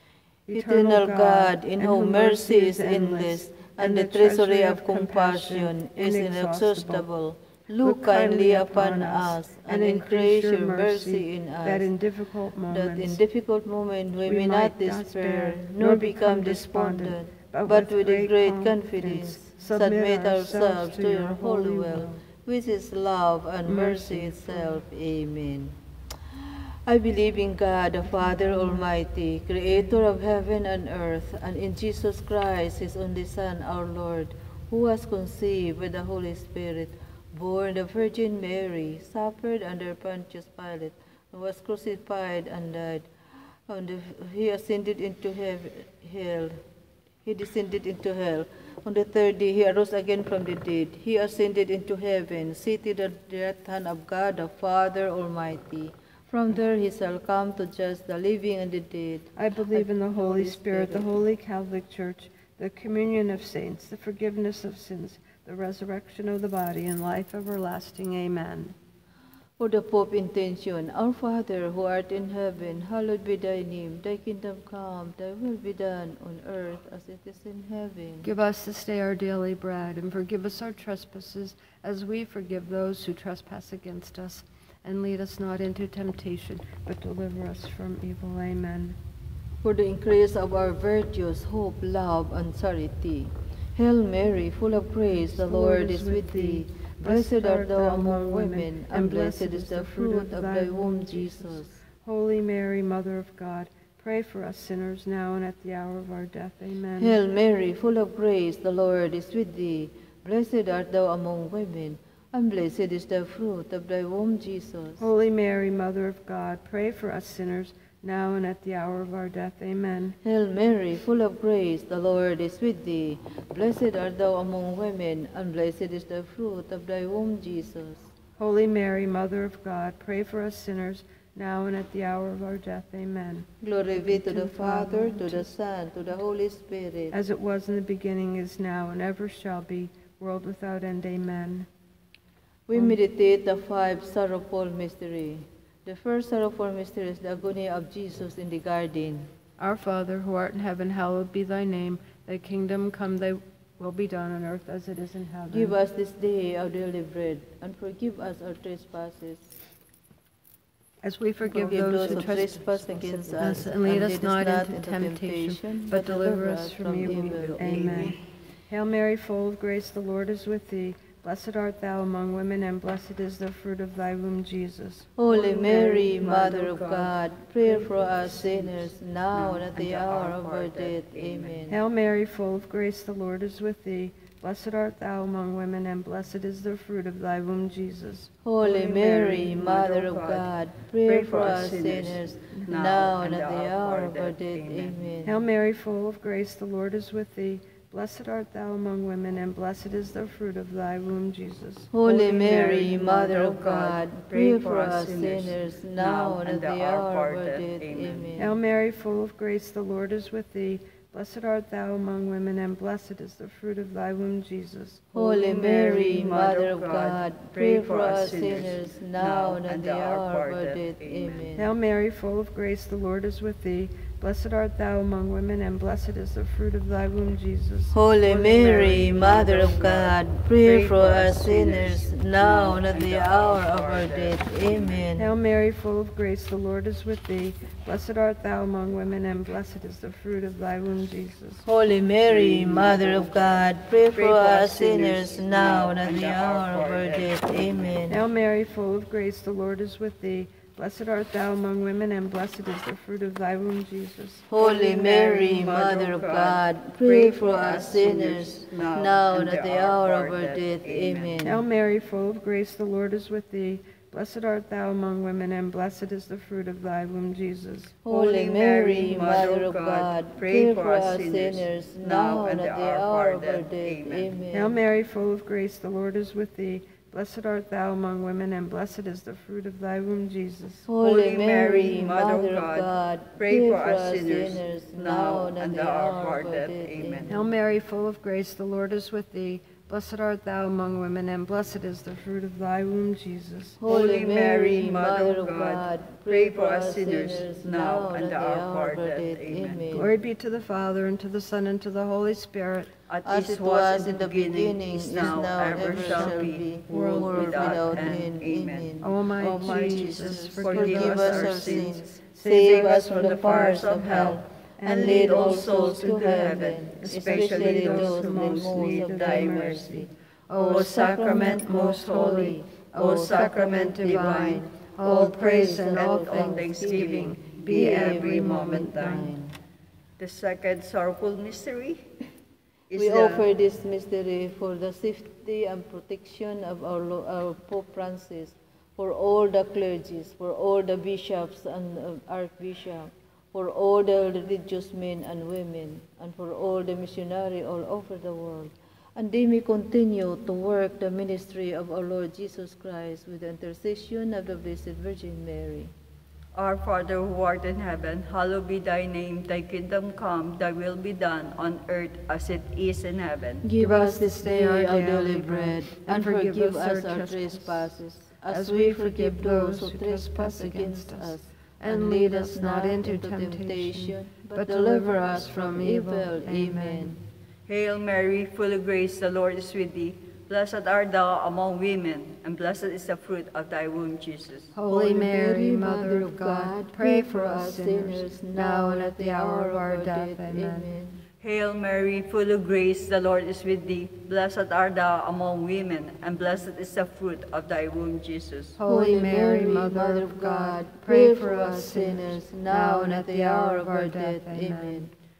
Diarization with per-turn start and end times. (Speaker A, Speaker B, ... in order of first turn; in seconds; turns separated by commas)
Speaker A: 0.5-7.1, Speaker B: 0.5-11.9, Speaker A: 7.8-13.2, Speaker B: 12.7-25.8, Speaker A: 14.2-22.2, Speaker A: 23.6-24.8, Speaker B: 26.9-43.1, Speaker B: 43.7-46.6, Speaker B: 47.2-61.1, Speaker A: 59.4-68.8, Speaker B: 69.6-78.3, Speaker A: 78.2-89.0, Speaker B: 89.6-101.8, Speaker A: 95.3-107.2, Speaker B: 107.0-115.0, Speaker A: 115.0-120.2, Speaker B: 120.2-128.1, Speaker A: 128.4-133.5, Speaker B: 133.6-137.1, Speaker A: 134.0-135.5, Speaker A: 137.1-141.7, Speaker B: 142.7-149.3, Speaker A: 149.6-155.7, Speaker B: 155.5-159.5, Speaker A: 161.0-168.2, Speaker B: 161.4-168.2, Speaker C: 162.0-162.3, Speaker C: 167.2-168.2, Speaker A: 168.7-175.1, Speaker B: 175.2-181.8, Speaker C: 175.3-181.7, Speaker A: 181.7-188.3, Speaker B: 188.4-195.3, Speaker C: 188.6-190.5, Speaker C: 191.0-195.2, Speaker A: 195.2-202.9, Speaker B: 201.9-208.5, Speaker C: 202.4-208.3, Speaker A: 208.4-215.1, Speaker C: 215.1-221.5, Speaker B: 215.1-221.7, Speaker A: 221.6-227.9, Speaker B: 227.9-235.3, Speaker C: 228.2-235.1, Speaker A: 235.2-241.6, Speaker B: 241.6-248.2, Speaker C: 242.3-248.0, Speaker A: 248.1-254.4, Speaker B: 254.5-261.6, Speaker C: 254.6-261.4, Speaker A: 261.4-267.9, Speaker B: 268.0-274.8, Speaker C: 268.1-274.4, Speaker A: 274.5-280.9, Speaker B: 280.9-287.4, Speaker C: 281.0-287.4, Speaker A: 287.3-293.8, Speaker B: 293.8-300.1, Speaker C: 293.9-299.9, Speaker A: 299.9-302.9, Speaker C: 303.1-320.0, Speaker B: 303.2-329.5, Speaker A: 305.9-308.1, Speaker A: 309.0-313.4, Speaker A: 314.8-329.3, Speaker C: 320.6-329.3, Speaker C: 330.2-332.1, Speaker C: 332.9-333.4, Speaker B: 332.9-355.9, Speaker C: 356.5-363.6, Speaker B: 363.6-377.2, Speaker A: 363.8-367.9, Speaker A: 368.5-377.2, Speaker C: 377.7-384.8, Speaker A: 384.7-390.9, Speaker B: 384.9-391.2, Speaker C: 391.4-398.8, Speaker A: 398.8-405.1, Speaker B: 398.8-405.1